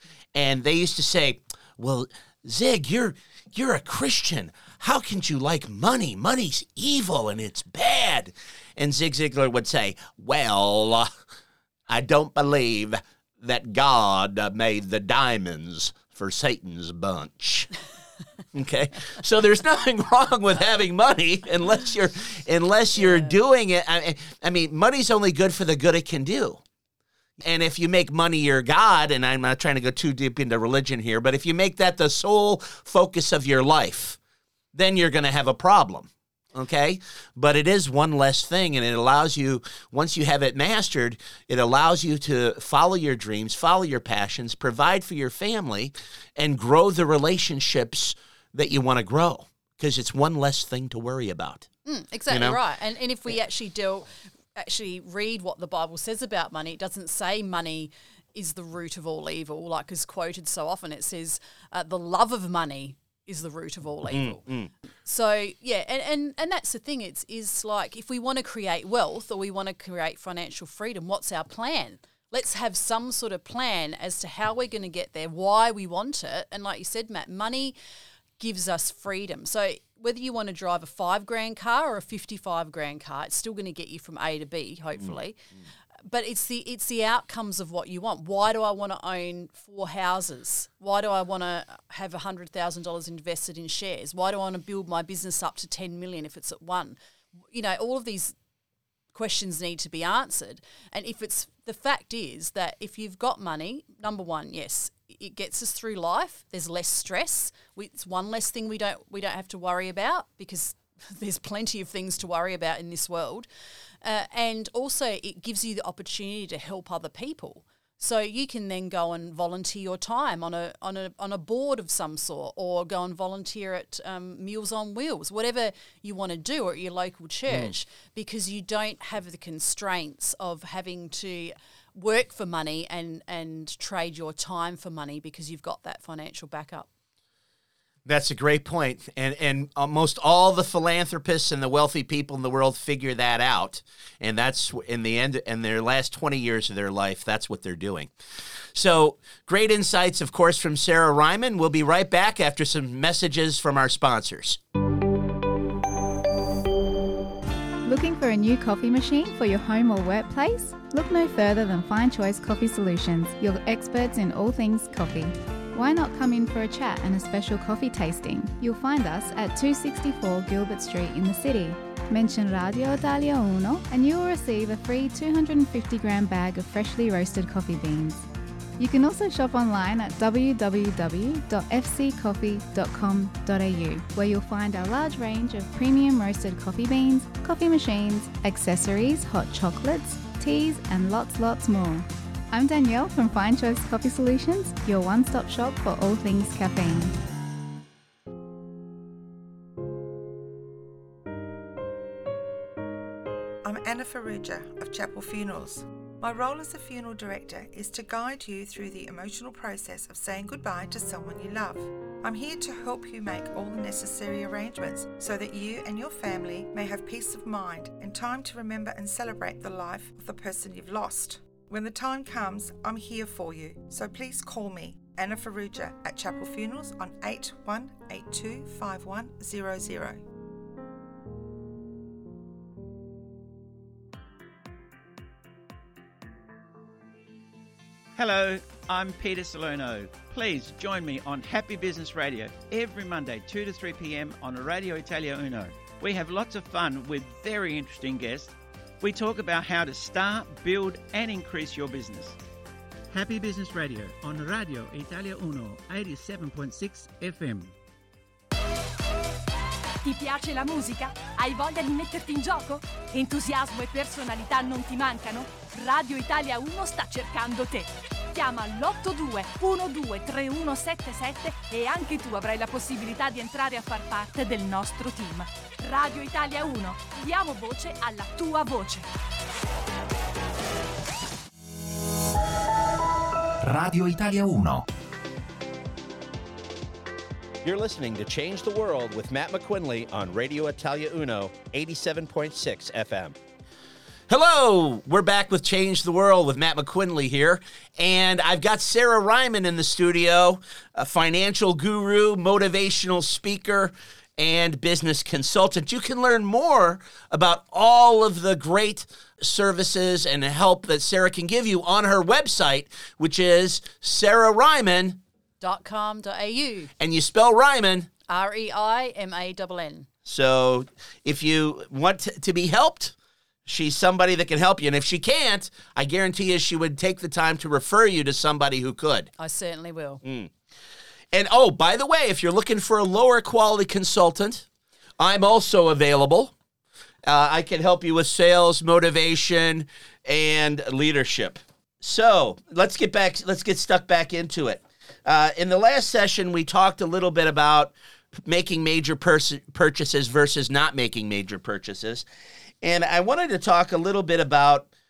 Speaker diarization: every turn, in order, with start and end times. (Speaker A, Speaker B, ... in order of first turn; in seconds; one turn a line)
Speaker A: 0.3-11.1
Speaker A: 11.9-17.7
Speaker A: 18.5-26.6
Speaker B: 23.0-23.3
Speaker A: 27.4-34.2
Speaker A: 34.7-51.7
Speaker B: 51.8-64.4
Speaker A: 52.3-52.6
Speaker A: 64.1-64.7
Speaker B: 65.0-77.7
Speaker B: 78.4-85.4
Speaker B: 86.1-97.0
Speaker B: 97.5-98.3
Speaker B: 99.1-113.5
Speaker B: 114.0-136.9
Speaker A: 138.1-148.1
Speaker A: 148.7-154.6
Speaker C: 157.8-178.2
Speaker C: 178.8-197.1
Speaker D: 203.6-230.2
Speaker E: 238.2-252.4
Speaker E: 253.1-257.7
Speaker F: 260.0-279.0
Speaker A: 283.6-284.8
Speaker A: 287.6-293.4
Speaker A: 294.3-315.2
Speaker B: 315.6-316.9
Speaker A: 317.0-318.1
Speaker B: 318.3-320.1
Speaker A: 320.2-323.1
Speaker A: 323.7-329.3
Speaker B: 329.4-330.2
Speaker A: 330.2-330.5
Speaker A: 331.3-334.6
Speaker A: 335.2-336.5
Speaker A: 337.2-352.2
Speaker A: 352.8-354.9